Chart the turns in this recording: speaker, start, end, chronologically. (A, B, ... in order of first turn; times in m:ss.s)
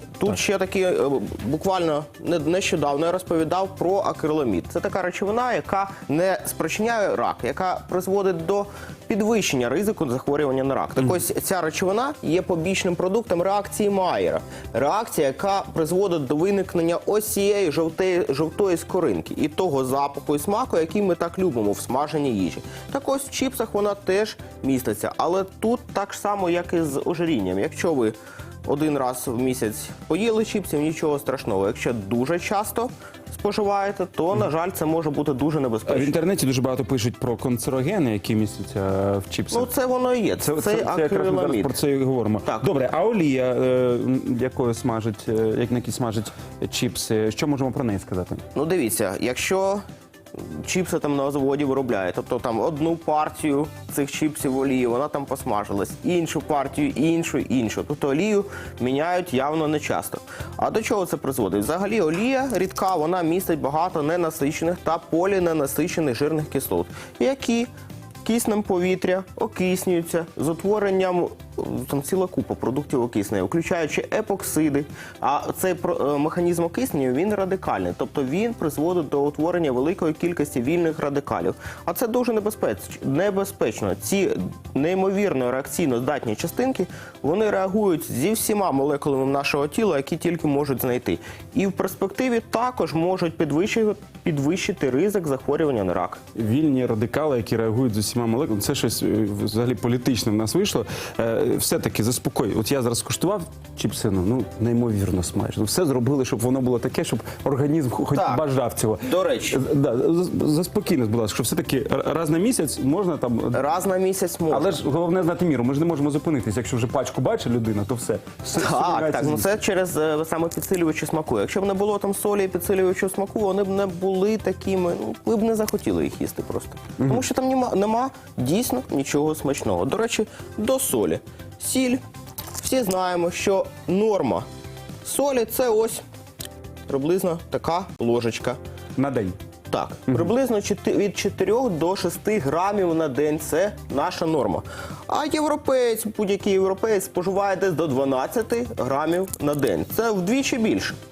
0:00.2-0:28.1 A
0:28.6-0:36.1 A
0:35.9-0:39.7 B
0:39.5-0:41.7 A
0:40.4-0:48.4 B
0:48.5-0:49.8 A
0:50.4-1:07.7 A
1:08.2-1:36.2 A
1:36.3-1:53.6 B
1:48.1-1:48.4 A
1:49.0-1:49.6 A
1:53.5-1:54.7 A
1:54.5-1:59.5 B
1:58.6-2:12.0 A
2:12.6-2:14.4 A
2:15.0-2:16.0 A
2:16.9-2:18.6 A
2:19.0-2:19.4 B
2:19.7-2:31.0 A